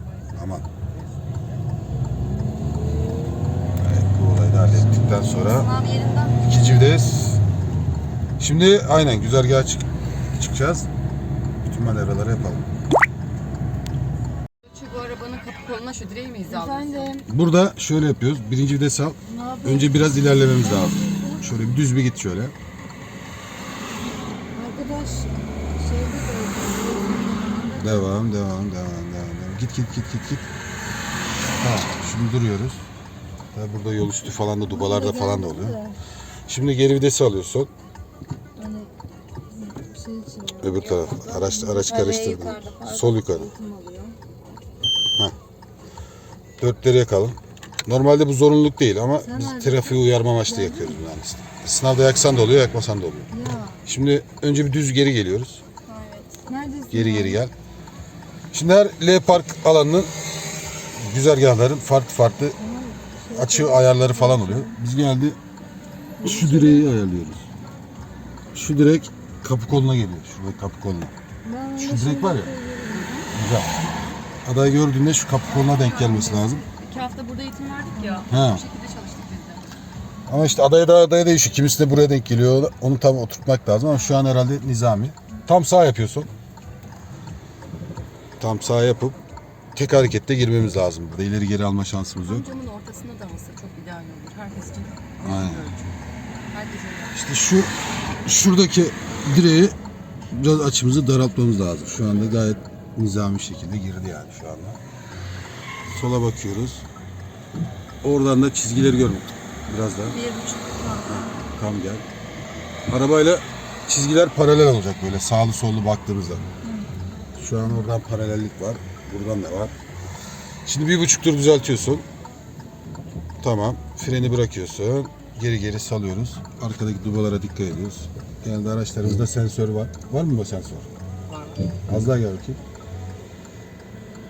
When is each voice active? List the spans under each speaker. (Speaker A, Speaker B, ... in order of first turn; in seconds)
Speaker A: 0.3-0.6, 3.8-5.7, 6.4-7.4, 8.4-10.9, 11.6-12.7, 17.3-22.5, 27.8-30.5, 31.6-32.9, 33.5-35.8, 36.5-37.7, 40.6-43.5, 46.6-53.3, 53.8-55.6, 56.9-57.5, 58.5-60.1, 61.0-62.6, 63.3-65.4, 66.2-67.5, 68.5-71.1, 71.8-72.5, 73.3-73.7, 74.4-76.6, 78.3-78.6, 80.3-86.3, 88.4-89.2, 89.7-92.5, 95.2-95.7, 97.1-97.7, 98.2-99.7, 100.3-104.8, 105.9-106.8, 108.0-110.2, 111.1-112.0, 112.9-116.5, 117.3-119.7, 120.7-122.0, 123.4-130.9, 131.9-132.6
Speaker B: 5.3-7.0, 16.5-17.2, 19.2-21.7, 24.5-28.0, 34.7-36.0, 38.6-38.9, 39.5-44.1, 49.2-51.0, 53.3-53.8, 55.8-57.4, 62.6-64.8, 66.2-66.9, 71.4-73.3, 77.9-78.3, 110.1-111.3, 116.6-116.9
Speaker C: 14.7-17.2, 75.8-79.6, 92.2-95.9, 96.5-97.2, 131.3-131.6